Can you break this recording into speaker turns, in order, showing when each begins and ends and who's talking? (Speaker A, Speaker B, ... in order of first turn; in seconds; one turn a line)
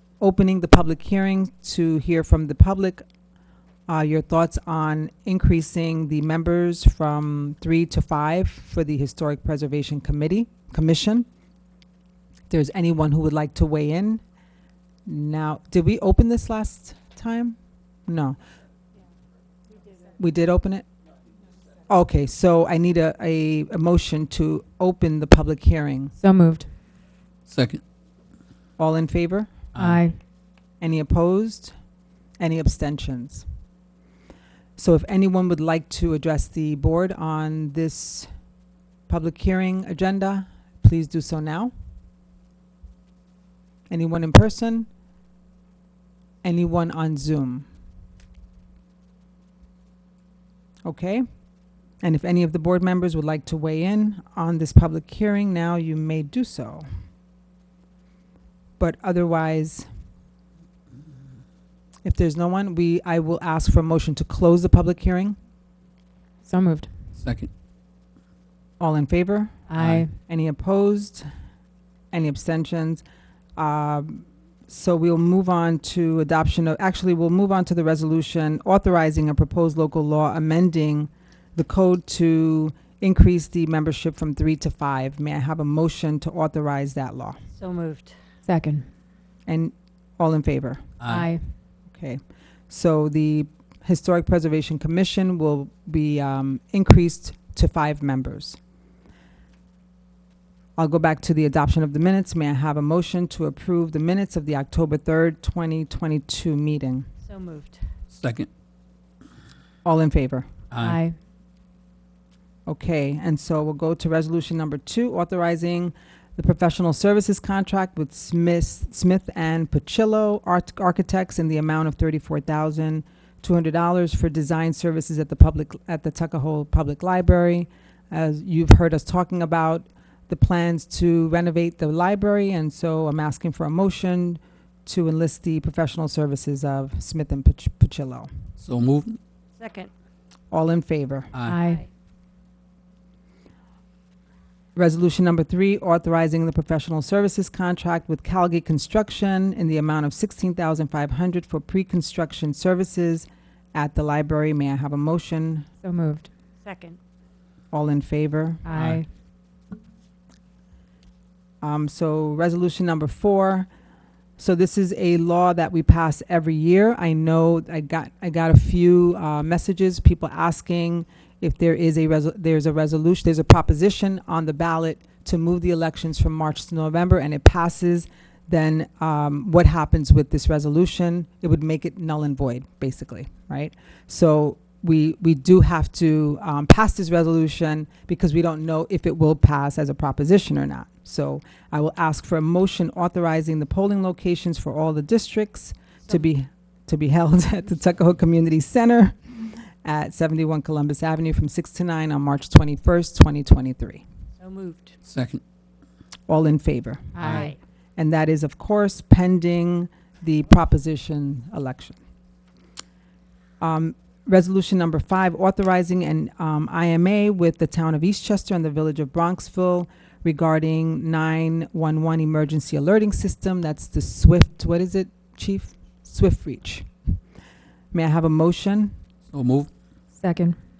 Speaker A: 0.2-3.0
Speaker A: 3.9-11.2
Speaker A: 12.5-14.2
Speaker A: 15.1-18.4
Speaker A: 20.2-20.9
Speaker A: 21.9-26.1
Speaker B: 26.2-26.7
Speaker C: 27.5-27.8
Speaker A: 28.8-29.5
Speaker C: 29.7-30.0
Speaker B: 29.8-30.2
Speaker A: 30.8-31.7
Speaker A: 32.4-33.4
Speaker A: 34.8-38.3
Speaker A: 39.1-41.7
Speaker A: 43.9-44.9
Speaker A: 46.4-47.7
Speaker A: 50.8-51.2
Speaker A: 52.0-56.9
Speaker A: 58.8-59.9
Speaker A: 62.0-65.4
Speaker B: 66.4-66.9
Speaker C: 67.2-67.5
Speaker A: 68.8-69.7
Speaker B: 69.7-70.2
Speaker C: 69.8-70.1
Speaker A: 70.2-71.3
Speaker A: 72.1-73.0
Speaker A: 73.6-87.4
Speaker D: 87.6-88.2
Speaker B: 88.5-88.9
Speaker A: 89.5-90.9
Speaker C: 91.0-91.3
Speaker B: 91.1-91.5
Speaker A: 91.9-98.6
Speaker A: 100.8-107.1
Speaker D: 107.2-107.8
Speaker C: 108.1-108.5
Speaker A: 109.8-110.5
Speaker C: 110.7-111.0
Speaker B: 110.8-111.2
Speaker A: 112.7-138.3
Speaker C: 138.6-139.2
Speaker D: 139.6-139.9
Speaker A: 140.5-141.3
Speaker C: 141.3-141.6
Speaker B: 141.4-141.8
Speaker D: 141.6-141.9
Speaker A: 144.8-155.7
Speaker B: 155.8-156.3
Speaker D: 156.6-157.0
Speaker A: 157.7-158.6
Speaker B: 158.7-159.1
Speaker C: 158.7-159.0
Speaker A: 161.6-163.7
Speaker A: 164.4-204.0
Speaker D: 204.4-204.9
Speaker C: 205.0-205.4
Speaker A: 206.3-212.0
Speaker B: 207.1-207.5
Speaker D: 207.2-207.6
Speaker C: 207.2-207.5
Speaker A: 213.6-227.1
Speaker A: 227.9-228.9
Speaker C: 229.3-229.7
Speaker B: 230.2-230.6